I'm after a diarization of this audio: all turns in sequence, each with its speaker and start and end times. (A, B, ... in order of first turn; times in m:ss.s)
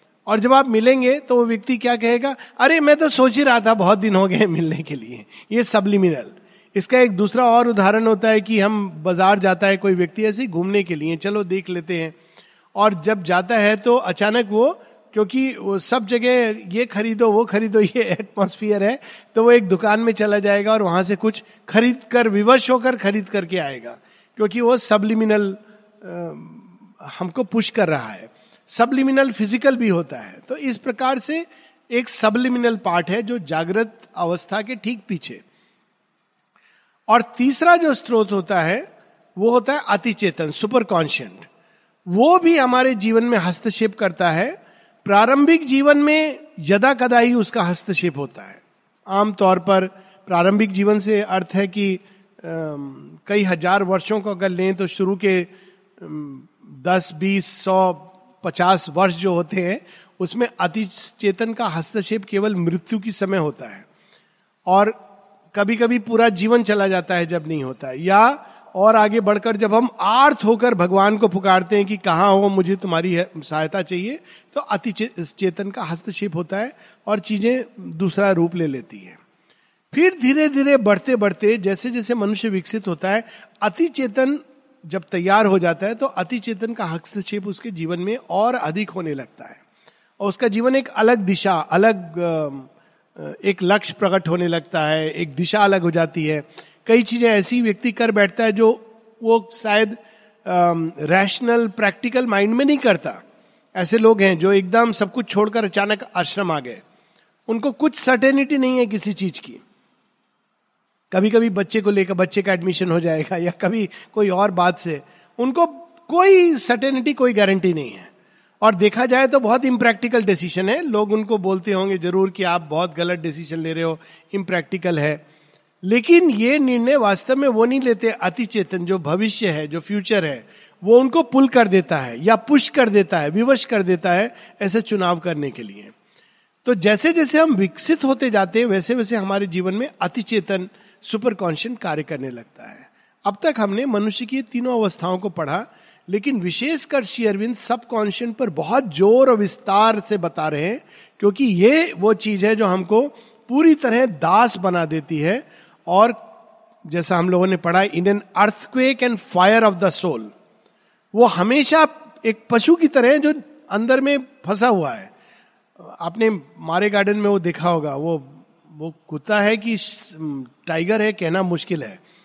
0:00.2-0:12.2 A
0:12.7-0:35.4 A
0:37.1-0:41.5 A
0:42.1-1:03.9 A
1:04.7-1:05.0 A
1:05.5-1:19.2 A
1:19.9-1:29.6 A
1:30.2-1:43.2 A
1:43.8-1:46.8 A
1:47.5-1:49.6 A
1:51.1-2:05.2 A
2:05.8-2:15.9 A
2:16.6-2:36.2 A
2:36.8-2:40.3 A
2:41.1-2:45.1 A
2:45.8-2:52.0 A